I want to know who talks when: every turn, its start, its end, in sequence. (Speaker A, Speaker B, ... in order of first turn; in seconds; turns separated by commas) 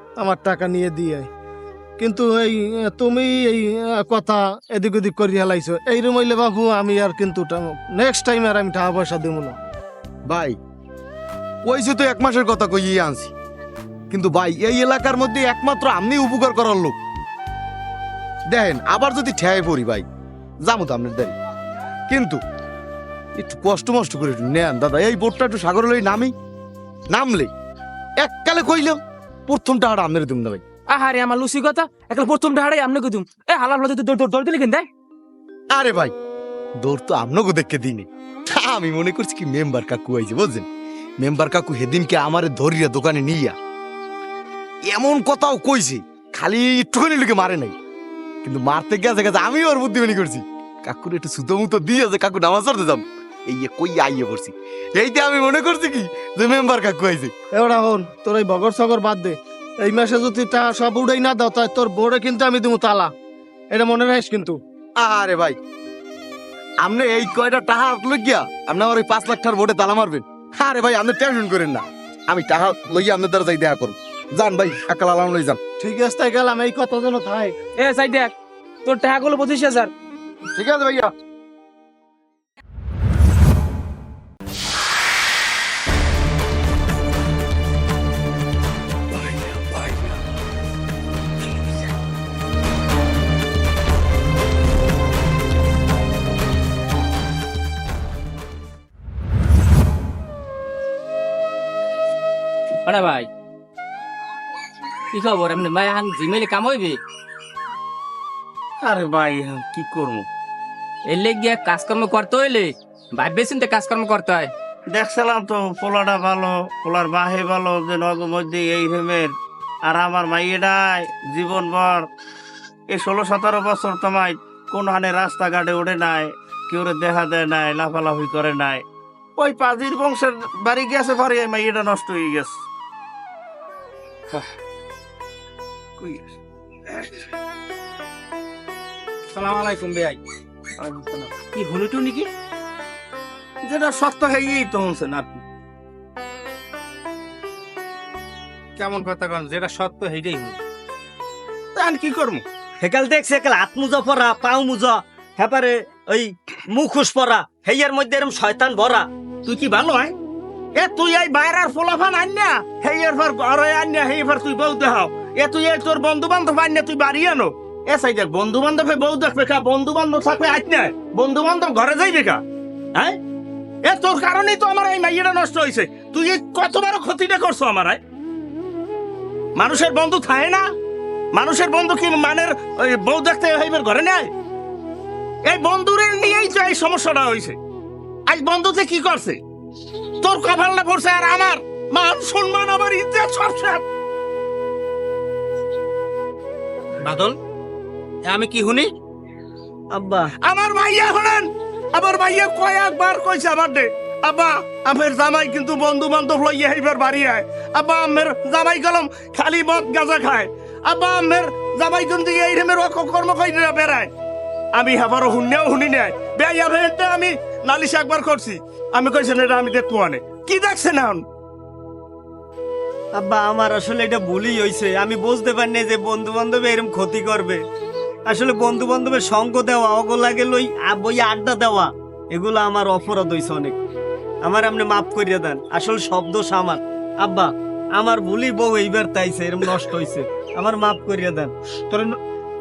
Speaker A: 0.2-1.3, Speaker A: 2.0-9.6, Speaker B: 10.3-10.6, Speaker B: 11.6-13.3, Speaker B: 14.1-16.9, Speaker B: 18.5-20.0, Speaker B: 20.6-21.3, Speaker B: 22.1-22.4, Speaker B: 23.4-26.3, Speaker B: 27.1-27.5, Speaker B: 28.2-30.6, Speaker C: 30.9-34.9, Speaker B: 35.7-36.1, Speaker B: 36.8-40.7, Speaker B: 41.2-43.5, Speaker B: 44.9-47.7, Speaker B: 48.4-57.3, Speaker A: 57.5-63.1, Speaker A: 63.7-64.6, Speaker B: 65.0-65.6, Speaker B: 66.8-75.6, Speaker A: 75.8-77.5, Speaker C: 77.8-78.3, Speaker C: 78.8-79.9, Speaker B: 80.5-81.1, Speaker B: 89.3-90.0, Speaker D: 102.9-103.2, Speaker D: 105.2-106.9, Speaker E: 108.8-110.2, Speaker D: 111.1-114.5, Speaker E: 114.9-119.3, Speaker E: 119.9-122.1, Speaker E: 122.9-128.8, Speaker E: 129.4-132.6, Speaker E: 136.0-136.3, Speaker E: 136.9-137.2, Speaker F: 139.3-140.2, Speaker F: 141.0-142.3, Speaker E: 143.6-145.4, Speaker F: 148.8-150.6, Speaker F: 151.8-152.4, Speaker G: 152.8-159.1, Speaker E: 159.4-160.1, Speaker E: 160.7-172.4, Speaker E: 173.8-178.0, Speaker E: 179.6-180.6, Speaker E: 181.3-184.3, Speaker E: 185.4-187.6, Speaker E: 188.3-189.4, Speaker E: 190.2-193.8, Speaker F: 197.0-197.3, Speaker F: 198.2-198.9, Speaker G: 199.9-200.3, Speaker E: 200.4-214.1, Speaker E: 214.8-221.2, Speaker G: 223.1-227.6, Speaker G: 228.3-233.8, Speaker G: 234.4-242.0